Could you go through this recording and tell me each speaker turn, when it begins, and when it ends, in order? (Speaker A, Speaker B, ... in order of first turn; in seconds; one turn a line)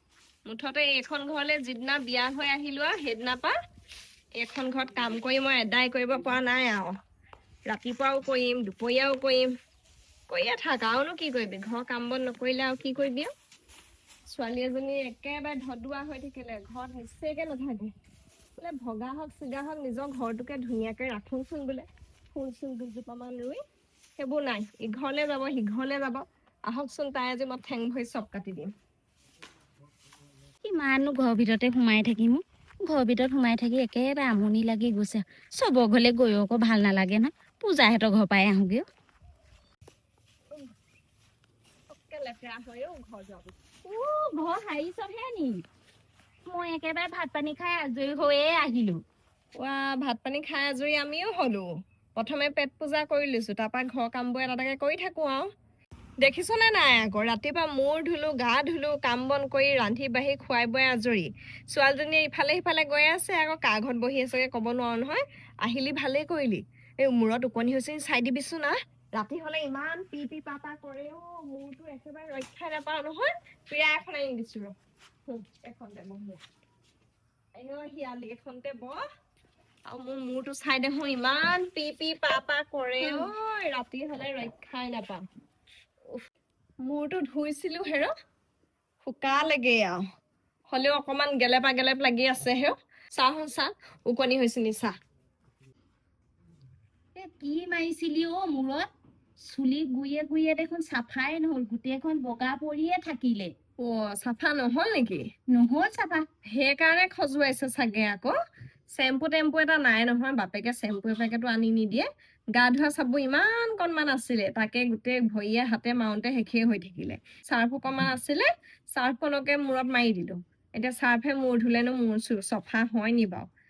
Speaker A: 0.5-3.5
Speaker A: 4.4-6.9
Speaker A: 7.7-9.5
Speaker A: 10.3-13.3
Speaker A: 14.3-17.9
Speaker A: 18.6-23.6
Speaker A: 24.2-28.7
Speaker B: 30.6-38.9
Speaker A: 41.9-43.5
Speaker B: 43.8-45.6
Speaker B: 46.5-49.0
Speaker A: 49.6-55.5
Speaker A: 56.2-74.7
Speaker A: 75.3-76.4
Speaker A: 77.6-79.0
Speaker A: 79.9-85.2
Speaker A: 86.8-88.1
Speaker A: 89.0-90.0
Speaker A: 90.7-95.0
Speaker B: 97.2-98.9
Speaker B: 99.4-103.5
Speaker A: 103.8-105.3
Speaker B: 105.5-106.3
Speaker A: 106.5-108.3
Speaker A: 108.9-123.5